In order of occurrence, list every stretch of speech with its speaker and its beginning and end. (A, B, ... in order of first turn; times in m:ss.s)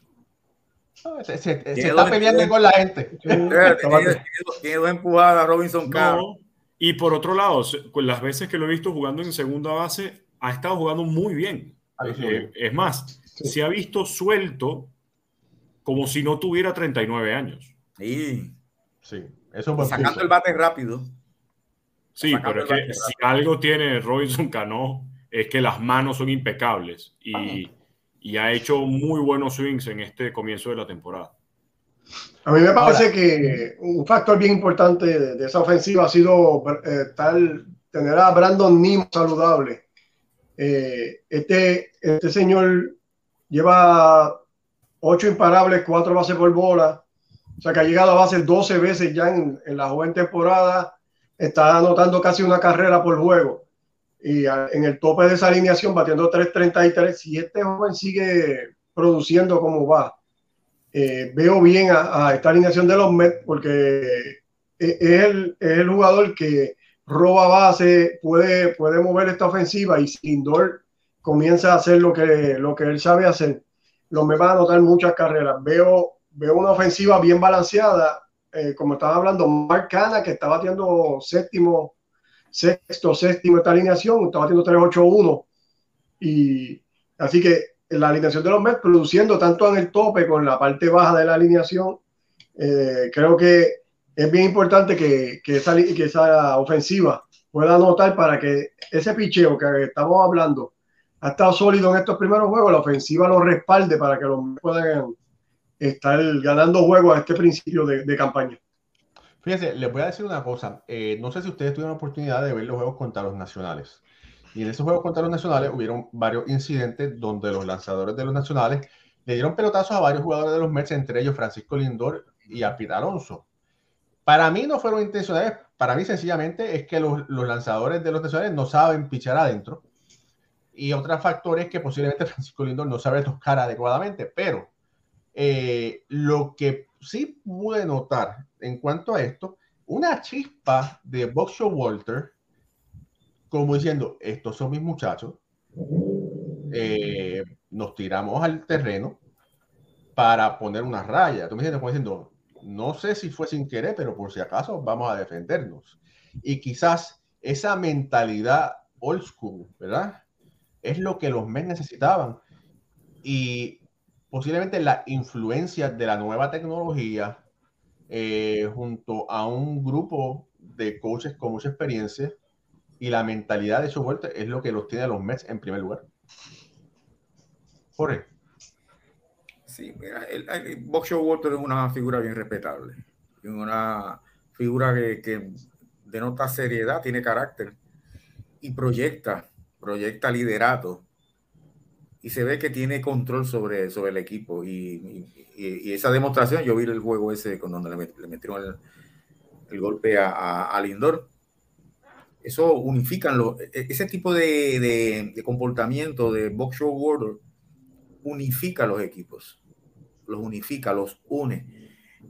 0:01.0-0:03.6 A
0:01.8-0:02.5 B
0:03.2-0:04.2 C
0:03.5-0:06.2 B
0:05.9-0:14.9 D
0:12.0-0:12.5 A
0:15.8-0:17.7 D
0:18.0-0:18.6 B
0:19.0-0:20.3 A
0:19.8-0:21.2 B
0:22.2-0:31.3 D
0:22.2-0:23.1 B
0:27.3-0:27.6 B
0:32.4-0:39.8 C
0:40.6-0:43.0 C
0:43.5-0:44.4 C
0:45.0-0:47.0 C
0:47.6-0:53.6 C
0:54.2-1:00.2 C
1:00.9-1:21.9 C
1:22.5-1:25.5 C
1:26.2-1:32.0 C
1:32.6-1:45.2 C
1:45.8-1:48.6 C
1:49.4-1:54.0 A
1:54.5-2:03.4 A
2:04.3-2:09.8 A
2:10.7-2:14.7 A
2:15.4-2:22.3 A
2:23.5-2:25.4 A
2:26.7-2:29.2 A
2:30.2-2:40.2 A
2:40.8-2:42.4 A
2:43.2-2:47.4 A
2:48.1-2:52.4 A
2:53.0-2:56.1 A
2:58.0-2:58.3 A
2:59.7-3:07.8 B
3:08.6-3:11.0 B
3:12.2-3:18.8 B
3:19.7-3:21.3 B
3:22.4-3:27.4 B
3:28.2-3:29.6 B
3:30.3-3:31.7 B